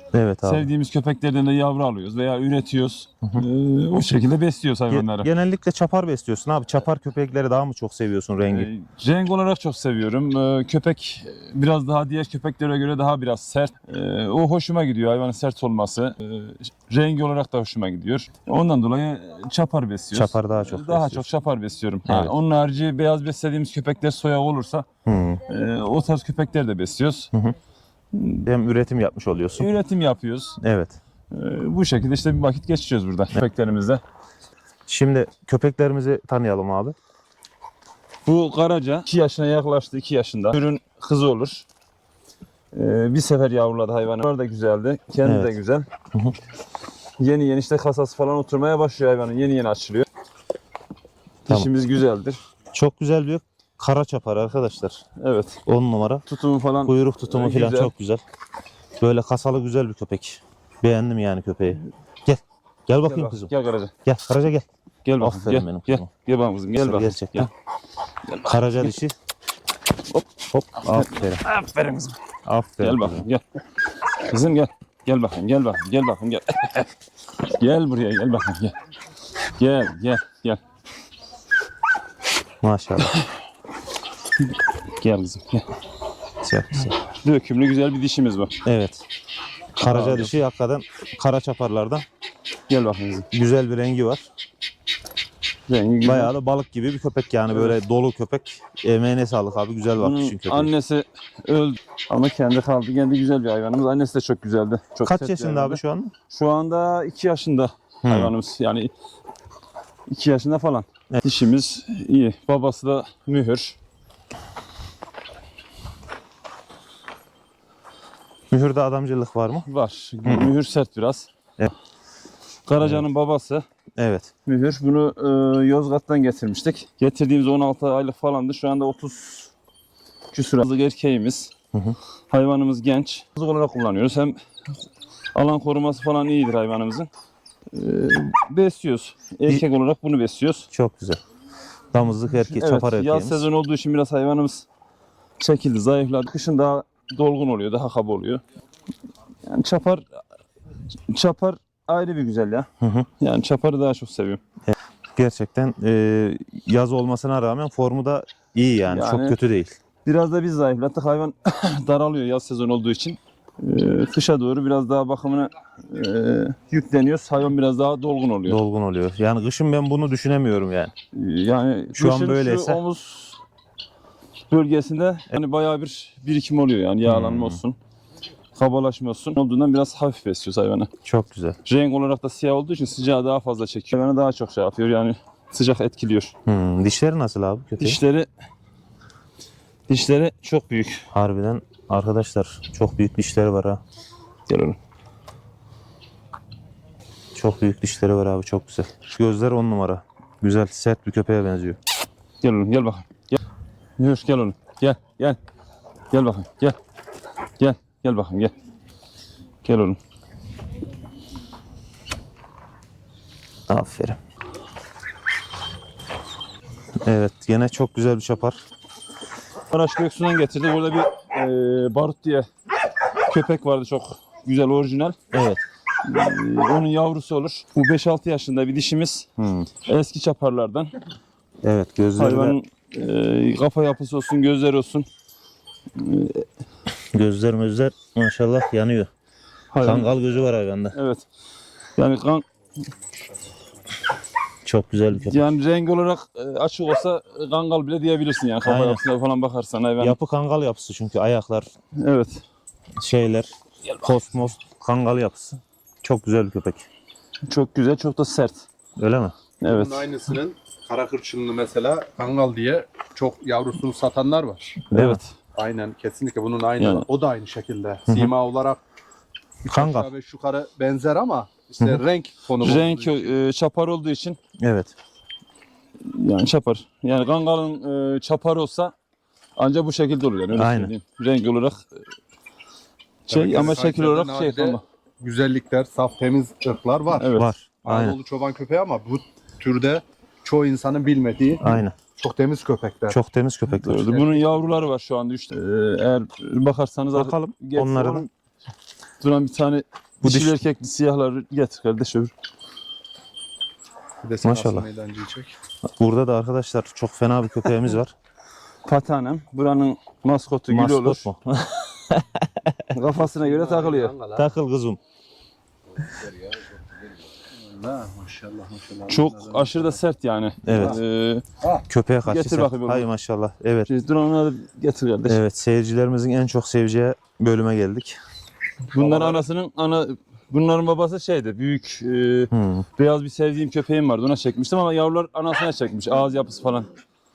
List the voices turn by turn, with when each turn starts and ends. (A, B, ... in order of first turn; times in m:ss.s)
0:00.1-0:00.7 A
0:00.4-0:05.3 B
0:04.9-0:08.7 A
0:08.5-0:24.8 B
0:20.1-0:21.2 A
0:22.0-0:22.3 A
0:25.0-0:25.4 A
0:25.5-0:27.3 B
0:28.1-0:28.4 B
0:28.4-0:29.7 A
0:29.6-0:30.6 B
0:30.6-0:31.0 A
0:31.3-0:34.0 B
0:34.9-0:37.0 A
0:38.2-0:41.6 B
0:42.7-0:45.8 B
0:45.2-0:45.6 A
0:47.2-0:50.1 B
0:51.4-0:52.4 B
0:52.7-0:55.0 A
0:55.2-0:55.6 B
0:55.6-0:56.2 A
0:56.3-0:57.9 B
0:56.8-0:58.2 A
0:59.0-1:03.5 A
1:03.0-1:03.9 B
1:04.0-1:04.6 A
1:05.0-1:07.5 B
1:05.2-1:06.1 A
1:06.8-1:07.5 A
1:08.3-1:08.9 B
1:08.4-1:09.1 A
1:10.1-1:12.2 B
1:10.5-1:11.4 A
1:12.4-1:13.3 A
1:12.8-1:13.4 B
1:14.2-1:16.9 B
1:17.5-1:18.7 B
1:19.5-1:20.6 B
1:22.6-1:23.1 A
1:25.0-1:25.7 B
1:26.4-1:27.0 A
1:27.0-1:28.5 B
1:28.6-1:29.0 A
1:29.8-1:32.0 A
1:29.8-1:30.3 B
1:32.7-1:33.3 B
1:33.3-1:34.2 A
1:35.7-1:36.3 B
1:36.0-1:40.7 A
1:37.5-1:37.8 B
1:40.0-1:48.9 B
1:45.0-1:46.1 A
1:48.0-1:48.3 A
1:50.1-1:53.8 B
1:58.5-1:59.7 A
1:59.6-2:01.3 B
2:00.2-2:00.5 A
2:02.6-2:03.6 B
2:02.8-2:03.0 A
2:04.0-2:04.3 A
2:04.4-2:09.5 B
2:10.3-2:11.5 B
2:12.3-2:14.4 B
2:15.3-2:17.1 B
2:17.7-2:20.7 B
2:20.7-2:21.2 A
2:21.9-2:23.4 A
2:22.4-2:24.6 B
2:25.4-2:28.4 B
2:29.4-2:30.0 B
2:31.1-2:32.7 B
2:32.8-2:33.1 A
2:33.2-2:34.4 B
2:34.7-2:39.8 A
2:38.9-2:39.4 B
2:40.0-2:48.6 B
2:48.5-2:50.9 A
2:51.1-2:53.4 B
2:51.9-2:52.8 A
2:54.5-2:57.8 B
2:57.0-2:57.6 A
2:58.5-3:00.9 B
3:01.0-3:01.6 A
3:01.6-3:06.3 B
3:06.4-3:08.0 A
3:07.8-3:08.3 B
3:09.9-3:11.0 B
3:11.1-3:13.8 A
3:14.5-3:14.8 B
3:17.3-3:21.8 A
3:22.4-3:23.4 B
3:24.0-3:25.4 B
3:26.1-3:26.8 B
3:27.6-3:28.5 B
3:29.6-3:30.0 B
3:33.7-3:34.2 A
3:37.0-3:38.6 A
3:39.7-3:42.4 B
3:43.2-3:45.2 B
3:45.3-3:45.6 A
3:46.0-3:49.3 B
3:49.4-3:49.7 A
3:49.8-3:50.9 B
3:51.6-3:52.6 A
3:52.2-3:55.1 B
3:55.9-3:56.4 B
3:57.1-3:59.1 A
3:59.7-4:00.1 B
3:59.8-4:01.0 A
4:00.9-4:01.2 B
4:02.0-4:02.4 B
4:04.6-4:05.5 A
4:05.1-4:10.2 B
4:08.6-4:09.0 A
4:10.0-4:11.7 A
4:12.0-4:12.4 B
4:13.0-4:16.8 A
4:17.4-4:18.6 B
4:19.0-4:19.3 A
4:19.6-4:20.0 B
4:19.6-4:24.8 C
4:24.9-4:25.3 B
4:24.9-4:25.2 A
4:25.5-4:28.8 C
4:26.8-4:27.1 B
4:28.1-4:28.3 A
4:29.6-4:33.3 C
4:29.7-4:30.1 A
4:32.6-4:34.4 B
4:34.6-4:34.9 A
4:36.0-4:38.9 B
4:39.6-4:41.8 B
4:40.5-4:40.9 A
4:43.3-4:53.2 C
4:43.3-4:44.8 B
4:47.2-4:47.5 B
4:47.3-4:48.2 A
4:51.6-4:52.0 A
4:53.1-4:54.2 A
4:53.7-4:58.3 B
4:54.2-4:54.5 C
4:57.1-4:58.3 A
4:59.2-5:02.3 B
5:00.2-5:00.6 A
5:04.2-5:05.5 C
5:04.4-5:04.9 A
5:06.0-5:08.1 A
5:08.8-5:11.3 B
5:10.7-5:12.9 A
5:12.9-5:14.1 B
5:13.2-5:14.4 C
5:14.4-5:15.0 A
5:17.6-5:20.0 C
5:19.1-5:21.4 B
5:20.6-5:21.0 A
5:20.7-5:21.0 C
5:21.9-5:23.9 A
5:22.2-5:23.0 B
5:23.9-5:25.4 B
5:25.2-5:28.2 A
5:28.9-5:36.9 B
5:29.0-5:29.4 C
5:32.5-5:32.8 A